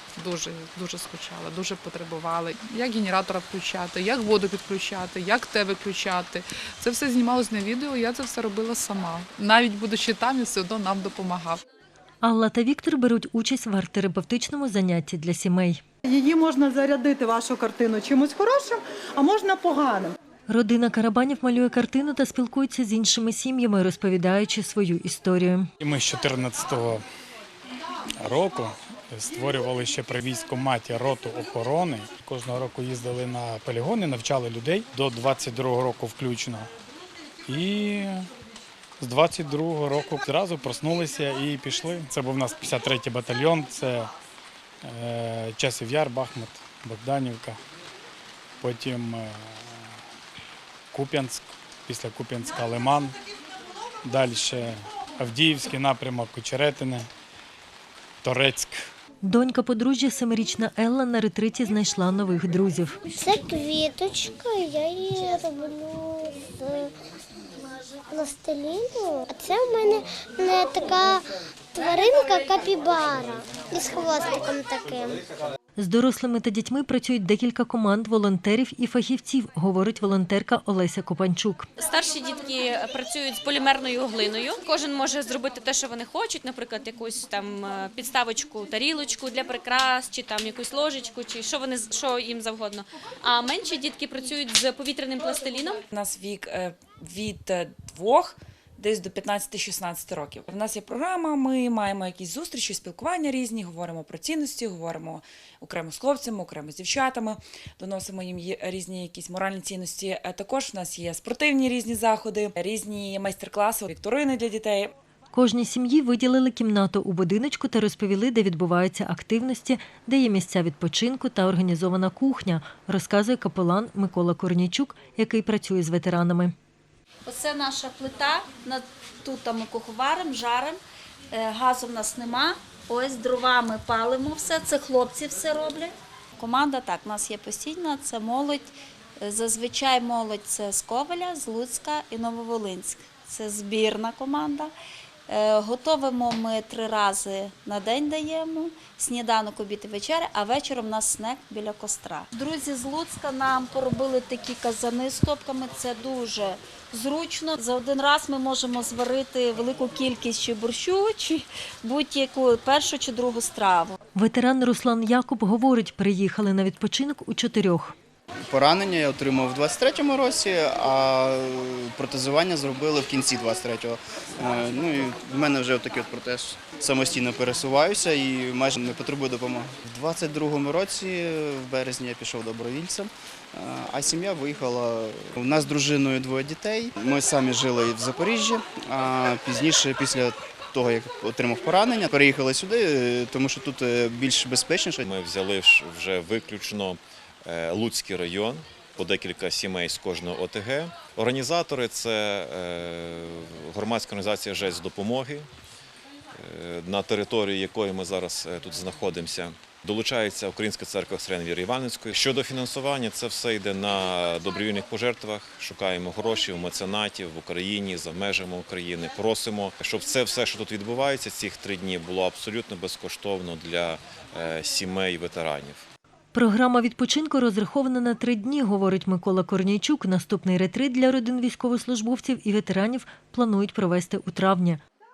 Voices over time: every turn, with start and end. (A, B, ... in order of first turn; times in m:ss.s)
0:00.2-0:11.6 A
0:12.2-0:15.8 B
0:16.1-0:20.2 C
0:20.5-0:25.7 B
0:25.8-0:27.0 D
0:28.2-0:36.7 D
0:37.5-0:38.3 D
0:39.0-0:44.1 D
0:44.8-0:47.6 D
0:48.6-0:49.6 D
0:50.9-0:53.2 D
0:54.0-0:57.1 D
0:58.2-0:58.9 D
0:59.2-1:03.0 B
1:03.1-1:06.9 E
1:07.6-1:15.2 E
1:15.8-1:21.7 B
1:21.8-1:35.8 F
1:35.9-1:54.9 G
1:55.3-2:06.5 B
2:07.3-2:10.8 H
2:11.3-2:24.7 H
2:25.3-2:44.0 H
2:44.2-2:47.9 B
2:48.5-3:15.0 I
3:15.0-3:25.5 J
3:26.4-3:45.8 J
3:46.3-3:54.8 B